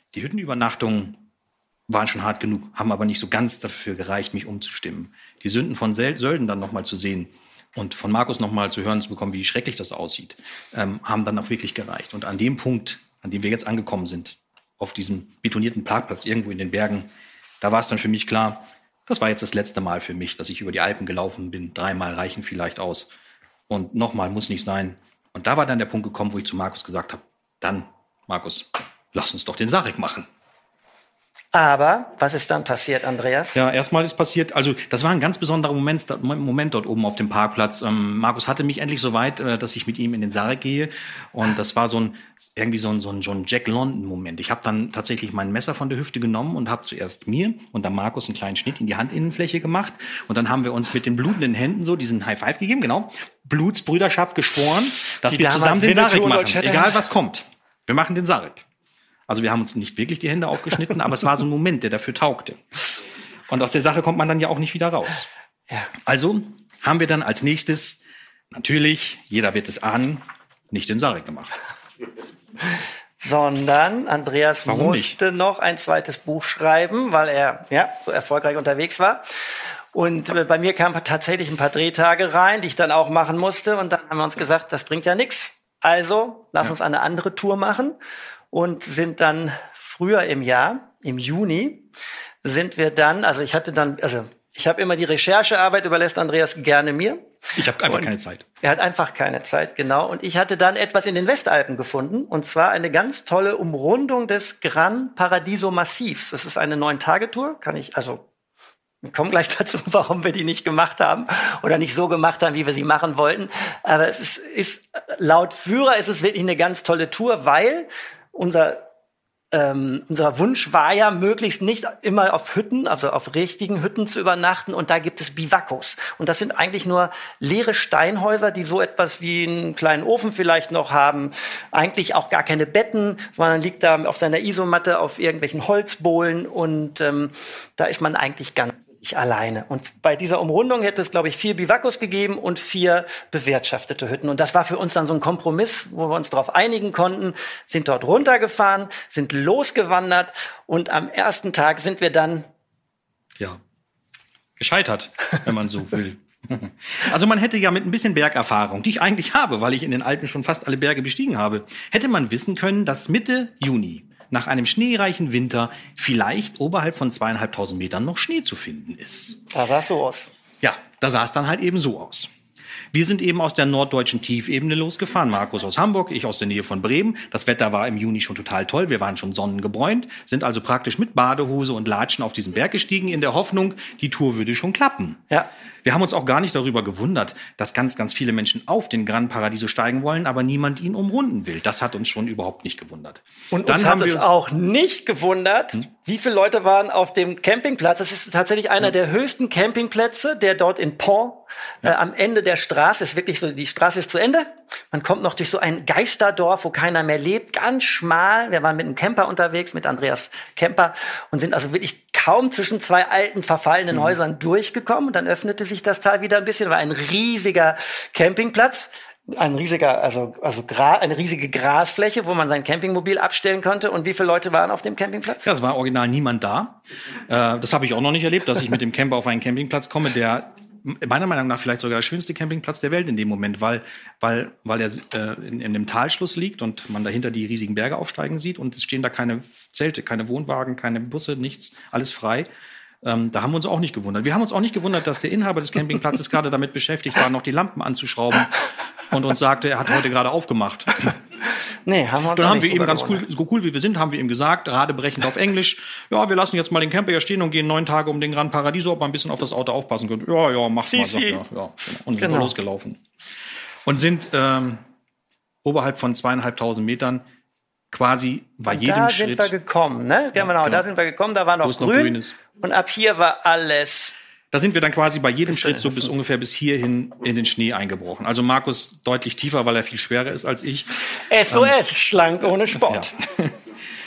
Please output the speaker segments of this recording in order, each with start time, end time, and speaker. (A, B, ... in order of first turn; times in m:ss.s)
0:00.1-0:01.2 A
0:01.9-0:17.1 A
0:17.6-0:23.1 A
0:23.7-0:30.3 A
0:31.5-0:33.6 B
0:33.6-0:58.6 A
0:55.3-0:57.0 B
0:59.3-1:02.6 A
1:03.5-1:05.3 A
1:06.0-1:08.0 A
1:08.5-1:11.6 A
1:13.2-1:19.2 B
1:14.7-1:15.2 A
1:19.9-1:28.0 B
1:28.5-1:31.8 B
1:32.4-1:37.2 B
1:37.6-1:38.4 A
1:38.6-1:48.2 B
1:49.0-1:58.8 B
1:59.5-2:32.5 B
2:34.6-2:49.4 A
2:49.5-2:50.3 B
2:50.6-2:52.3 A
2:52.9-3:05.2 A
3:05.8-3:14.3 A
3:13.5-3:45.5 B
3:45.4-4:02.5 A
4:03.0-4:11.2 A
4:11.8-4:13.2 B
4:12.3-4:23.0 A
4:20.8-4:21.4 B
4:22.2-4:22.5 B
4:23.8-4:24.8 A
4:25.6-4:27.2 A
4:27.9-4:29.5 A
4:28.7-4:34.1 B
4:30.4-4:30.8 A
4:31.6-4:32.4 A
4:34.5-4:40.9 A
4:35.7-4:36.0 B
4:41.3-4:43.1 B
4:41.5-4:41.7 A
4:42.8-4:43.6 A